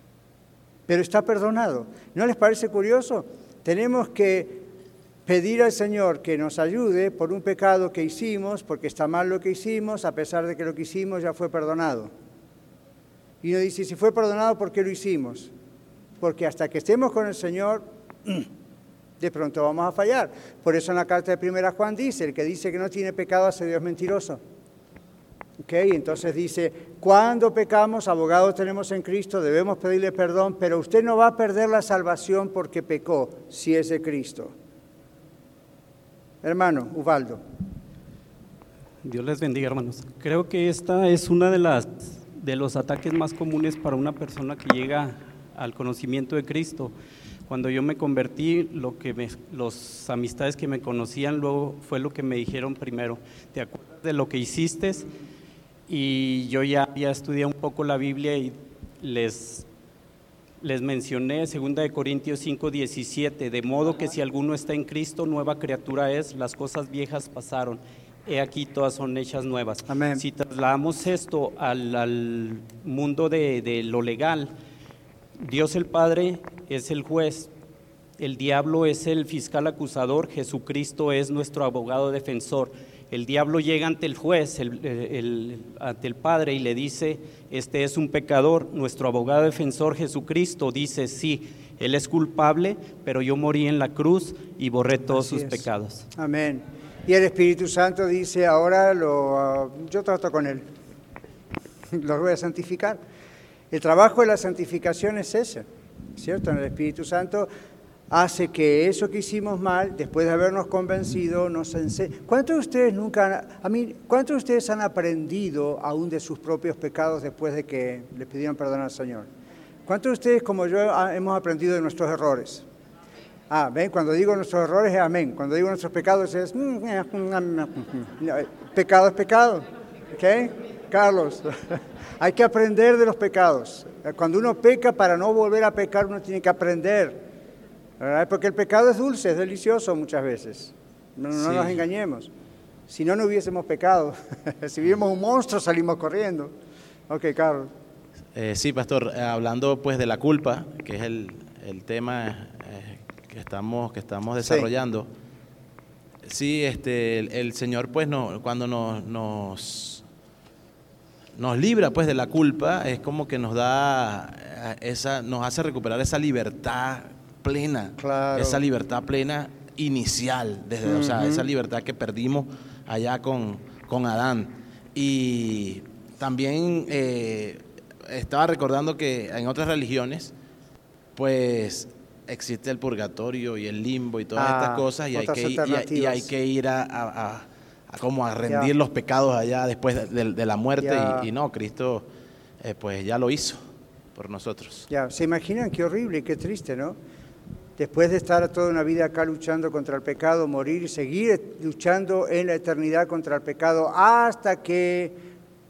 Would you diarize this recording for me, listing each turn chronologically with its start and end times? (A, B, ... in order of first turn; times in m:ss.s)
0:00.9-0:04.7 A
0:05.3-0:12.1 A
0:13.4-0:15.5 A
0:16.2-0:18.5 A
0:19.2-0:24.4 A
0:25.6-0:34.5 A
0:36.4-0:37.4 A
0:39.0-0:46.9 B
0:47.5-0:55.1 B
0:55.9-0:59.6 B
1:00.6-1:14.5 B
1:09.9-1:10.2 A
1:15.4-1:17.5 B
1:18.2-1:36.0 B
1:35.1-1:40.6 A
1:41.9-1:43.0 A
1:43.7-1:45.6 A
1:46.2-1:47.5 A
1:48.1-1:59.3 A
1:59.9-2:02.6 A
2:03.5-2:17.2 A
2:18.0-2:22.3 A
2:21.3-2:21.8 C
2:22.9-2:26.5 A
2:27.1-2:27.7 A
2:28.3-2:35.1 C
2:34.4-2:34.7 A
2:36.2-2:40.0 C
2:41.4-3:00.3 C
2:48.0-2:48.6 A
2:50.8-2:51.4 A
3:01.2-3:12.1 C
3:04.4-3:06.3 A
3:08.4-3:08.7 A
3:10.8-3:11.3 A
3:12.6-3:13.6 C
3:14.1-3:14.9 C
3:14.9-3:17.0 A
3:17.8-3:25.2 A